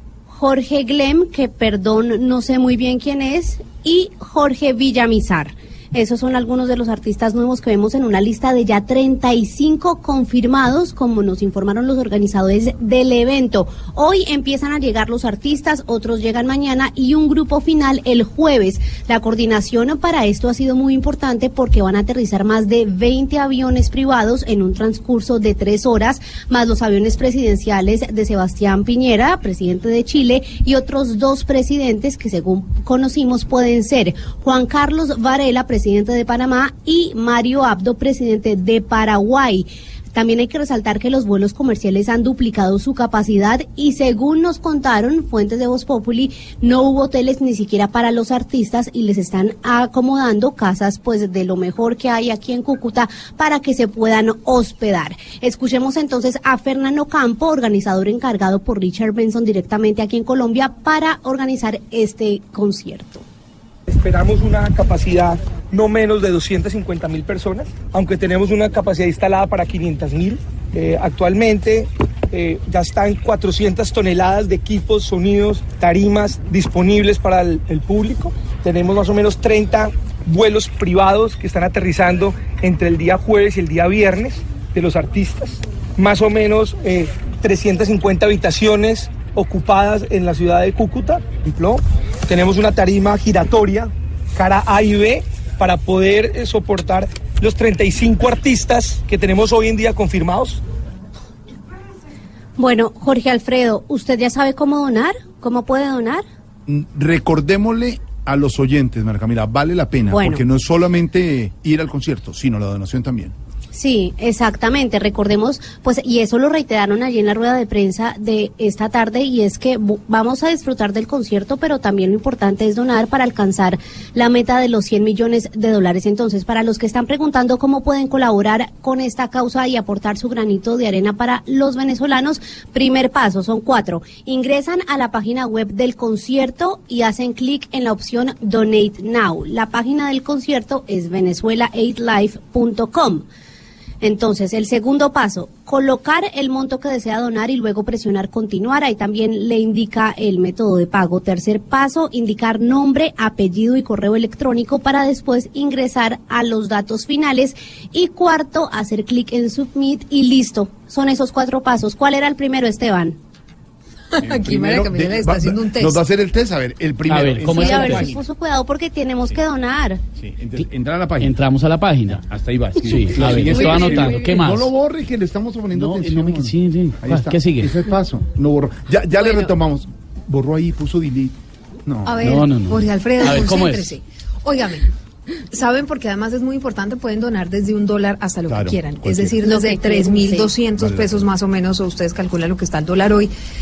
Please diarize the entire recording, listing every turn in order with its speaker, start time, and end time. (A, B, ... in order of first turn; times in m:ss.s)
0:00.3-1:03.2 A
1:03.9-1:40.6 B
1:42.6-1:46.2 A
1:46.7-1:53.4 C
1:50.1-1:50.4 A
1:53.7-2:23.2 A
2:24.0-2:43.2 A
2:44.1-2:46.0 D
2:44.2-2:48.2 C
2:47.1-2:48.2 E
2:47.4-2:50.0 A
2:50.2-2:51.4 C
2:51.2-2:52.3 E
2:52.3-3:02.2 C
2:52.8-2:54.7 E
2:55.8-2:57.8 E
3:02.1-3:04.9 D
3:02.2-3:03.9 E
3:05.5-3:13.3 D
3:08.5-3:09.4 C
3:09.4-3:10.5 A
3:10.8-3:11.3 C